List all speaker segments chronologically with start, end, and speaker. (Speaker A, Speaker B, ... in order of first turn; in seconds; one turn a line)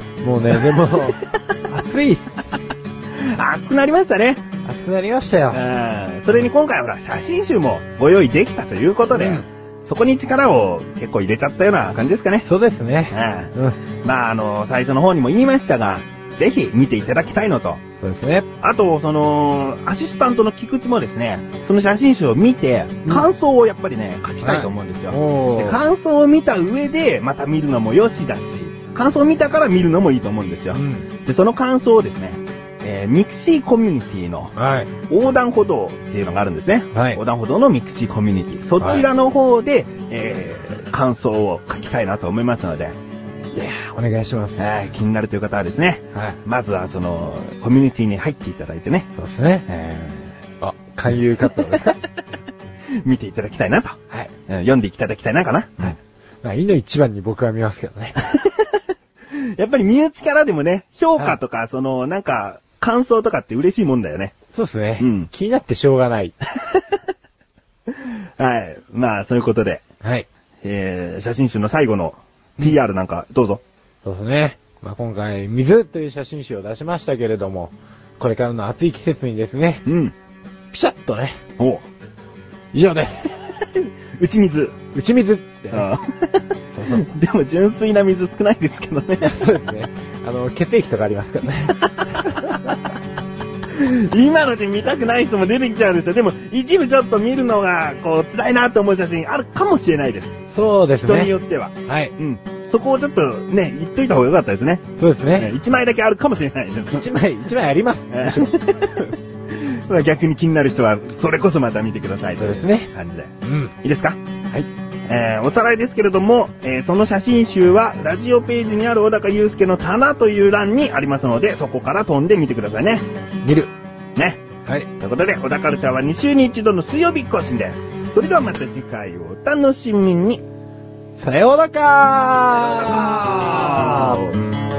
Speaker A: 0.2-2.6
Speaker B: 3.2-4.4
Speaker A: 4.7-5.6
Speaker B: 5.5-12.5
Speaker A: 9.1-9.5
Speaker A: 12.4-13.8
Speaker B: 13.1-17.8
Speaker A: 18.0-18.5
Speaker B: 18.6-43.0
Speaker A: 24.4-25.8
Speaker A: 30.7-31.1
Speaker A: 34.6-34.9
Speaker A: 36.9-37.2
Speaker A: 38.8-39.1
Speaker A: 43.5-44.7
Speaker B: 44.6-49.1
Speaker A: 46.1-46.4
Speaker A: 49.1-49.7
Speaker B: 49.7-50.4
Speaker A: 50.6-52.0
Speaker B: 53.0-56.0
Speaker A: 55.8-58.2
Speaker B: 58.2-58.8
Speaker B: 59.3-64.3
Speaker A: 64.5-66.4
Speaker B: 65.0-65.3
Speaker B: 67.9-69.8
Speaker B: 70.6-73.6
Speaker A: 74.0-79.8
Speaker B: 79.9-80.1
Speaker A: 80.7-81.4
Speaker B: 81.6-81.8
Speaker A: 82.7-83.4
Speaker B: 83.8-84.8
Speaker A: 84.9-85.9
Speaker B: 85.7-89.4
Speaker A: 86.7-87.1
Speaker A: 89.2-92.6
Speaker B: 93.7-100.4
Speaker A: 100.5-102.1
Speaker B: 101.0-107.1
Speaker A: 105.0-105.5
Speaker A: 106.9-109.1
Speaker B: 108.1-114.2
Speaker A: 112.4-112.9
Speaker A: 113.4-113.7
Speaker B: 115.1-123.1
Speaker A: 123.4-123.7
Speaker B: 124.2-124.4
Speaker B: 125.0-130.4
Speaker A: 131.2-134.2
Speaker B: 132.6-134.4